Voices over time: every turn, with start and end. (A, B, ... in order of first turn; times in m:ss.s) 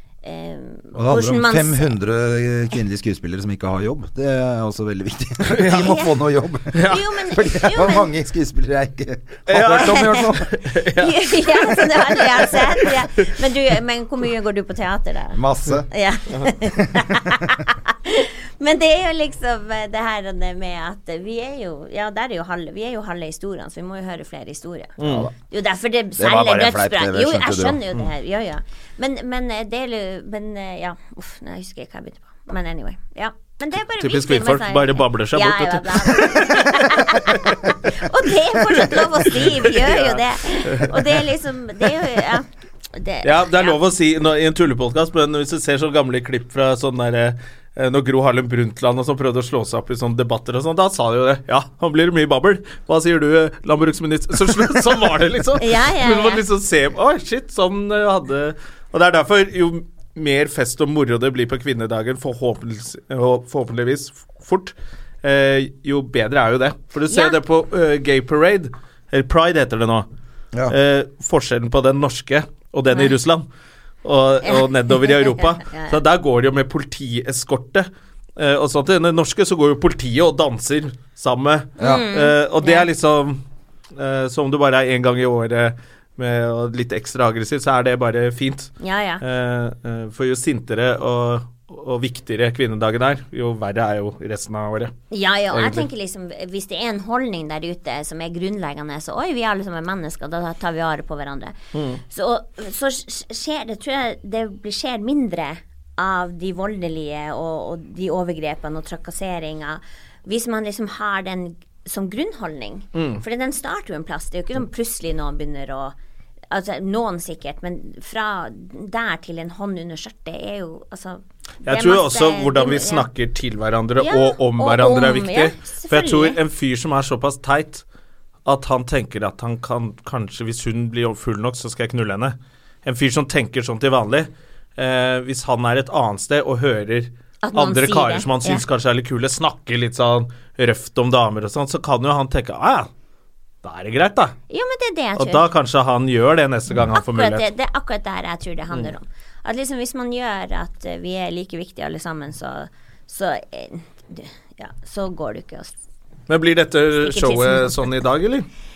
0:00.2-0:01.9 A
0:00.9-0:10.5 B
0:05.5-0:05.9 C
0:05.7-0:06.1 A
0:06.7-0:07.0 C
0:06.8-0:08.1 A
0:09.5-0:13.3 C
0:09.8-0:10.3 A
0:11.0-0:15.4 A
0:15.3-0:15.9 B
0:15.9-0:25.0 A
0:25.0-0:25.3 C
0:25.0-0:25.3 B
0:25.5-0:43.8 A
0:26.2-0:27.8 B
0:34.0-0:37.7 C
0:38.8-0:41.2 C
0:43.2-1:10.1 C
0:55.6-0:56.4 A
1:07.1-1:07.4 A
1:10.7-1:13.4 C
1:14.0-1:23.4 C
1:14.4-1:16.0 A
1:21.8-1:22.0 B
1:21.8-1:22.8 A
1:23.9-1:34.9 C
1:28.8-1:29.2 A
1:35.1-1:41.5 A
1:35.5-1:35.9 C
1:41.7-1:42.0 C
1:42.0-1:55.9 A
1:52.9-1:53.2 C
1:56.5-2:03.1 A
2:01.6-2:07.8 C
2:04.0-2:06.4 A
2:08.4-2:22.9 C
2:17.4-2:18.6 A
2:23.6-2:24.4 C
2:24.5-2:25.5 A
2:25.2-2:27.4 C
2:26.9-2:35.7 A
2:36.3-2:38.5 C
2:37.0-2:37.8 A